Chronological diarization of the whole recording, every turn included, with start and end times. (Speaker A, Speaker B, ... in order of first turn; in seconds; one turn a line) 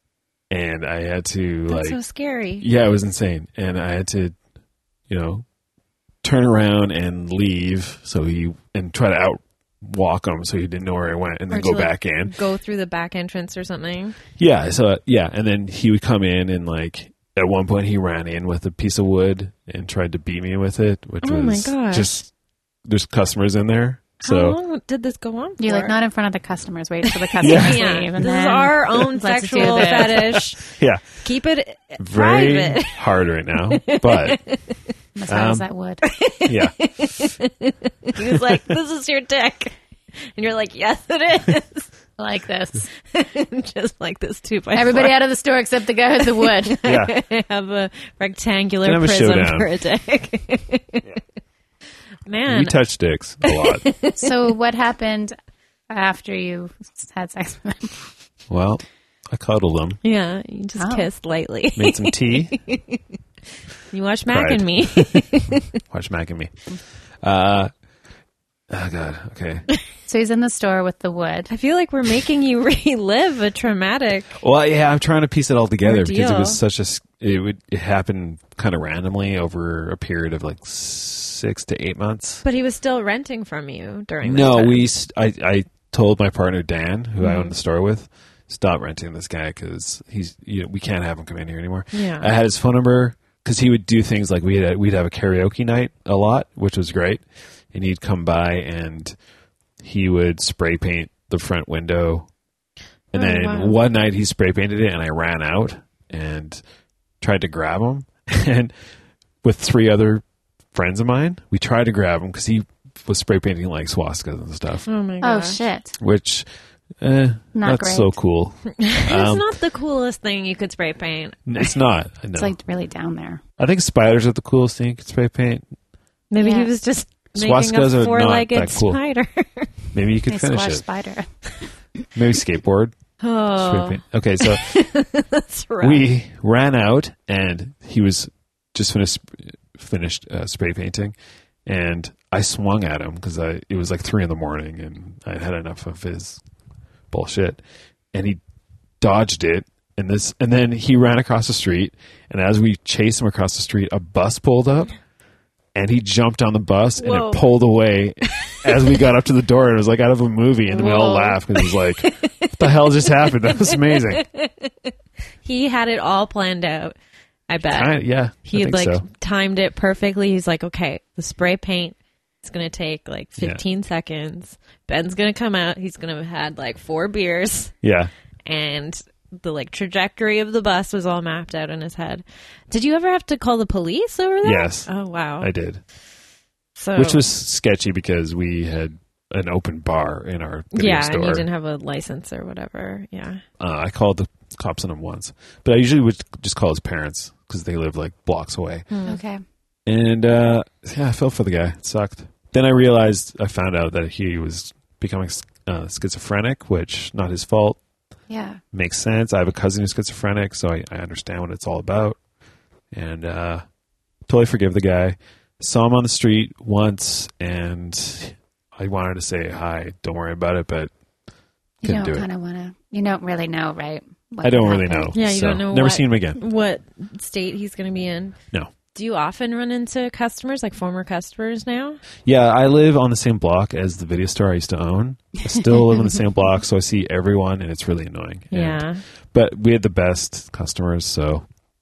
Speaker A: 0.5-2.0
Speaker B: 1.7-2.6
Speaker A: 2.6-4.3
Speaker A: 5.1-5.4
Speaker A: 6.2-12.3
Speaker B: 11.5-14.2
Speaker A: 14.4-22.2
Speaker B: 21.2-22.2
Speaker A: 22.9-24.6
Speaker B: 24.2-25.9
Speaker C: 25.6-30.4
Speaker B: 27.1-30.6
Speaker A: 27.4-27.8
Speaker A: 30.3-31.0
Speaker B: 31.2-33.0
Speaker A: 32.0-34.4
Speaker B: 33.6-34.8
Speaker C: 35.1-36.1
Speaker A: 35.3-35.6
Speaker B: 36.0-39.7
Speaker A: 36.5-36.8
Speaker A: 38.3-38.6
Speaker B: 40.4-41.9
Speaker C: 42.2-42.9
Speaker B: 43.1-45.1
Speaker C: 44.7-46.8
Speaker B: 46.2-51.1
Speaker A: 46.8-47.1
Speaker A: 48.8-49.7
Speaker B: 52.3-52.8
Speaker A: 52.5-53.8
Speaker B: 53.4-54.5
Speaker C: 54.1-55.3
Speaker C: 55.9-58.0
Speaker A: 58.5-60.0
Speaker B: 60.0-63.0
Speaker C: 60.8-61.1
Speaker A: 61.8-62.6
Speaker B: 63.9-65.7
Speaker A: 64.3-66.5
Speaker A: 67.2-67.7
Speaker A: 68.7-69.7
Speaker C: 70.1-71.5
Speaker B: 71.5-74.4
Speaker A: 74.4-82.4
Speaker B: 75.8-76.6
Speaker B: 82.4-84.8
Speaker A: 84.2-99.1
Speaker B: 87.2-87.5
Speaker B: 91.9-92.3
Speaker A: 99.8-102.3
Speaker A: 103.1-106.6
Speaker B: 103.1-103.8
Speaker A: 107.2-108.7
Speaker A: 109.4-114.8
Speaker B: 114.8-115.6
Speaker C: 115.2-116.0
Speaker A: 116.0-116.4
Speaker A: 117.0-119.5
Speaker C: 117.5-118.1
Speaker B: 118.8-121.4
Speaker A: 121.5-122.5
Speaker C: 122.3-123.4
Speaker A: 123.6-125.6
Speaker B: 126.3-129.7
Speaker C: 126.4-126.7
Speaker A: 127.3-129.0
Speaker A: 129.9-130.8
Speaker C: 130.3-131.3
Speaker A: 132.1-132.9
Speaker B: 133.2-136.0
Speaker A: 133.6-134.8
Speaker A: 135.8-141.1
Speaker A: 141.7-146.4
Speaker A: 147.1-147.6
Speaker A: 148.1-148.4
Speaker A: 149.0-154.9
Speaker A: 155.7-164.2
Speaker B: 157.0-157.4
Speaker B: 158.4-158.7
Speaker B: 160.7-164.9
Speaker B: 165.4-166.9
Speaker B: 167.5-167.9
Speaker A: 167.6-169.0
Speaker B: 168.4-177.7
Speaker A: 177.8-178.1
Speaker B: 178.4-185.5
Speaker A: 184.4-185.8
Speaker B: 186.8-187.2
Speaker A: 186.9-191.4
Speaker B: 190.7-193.4
Speaker A: 193.6-198.9
Speaker B: 198.9-199.2
Speaker C: 199.1-199.4
Speaker A: 199.8-207.8
Speaker C: 208.3-208.6
Speaker A: 208.7-212.2
Speaker A: 212.9-213.6
Speaker A: 214.3-220.9
Speaker C: 221.8-225.1
Speaker A: 221.8-222.2
Speaker A: 224.4-226.4
Speaker B: 225.1-228.3
Speaker B: 228.9-232.0
Speaker A: 232.2-241.4
Speaker B: 238.5-239.0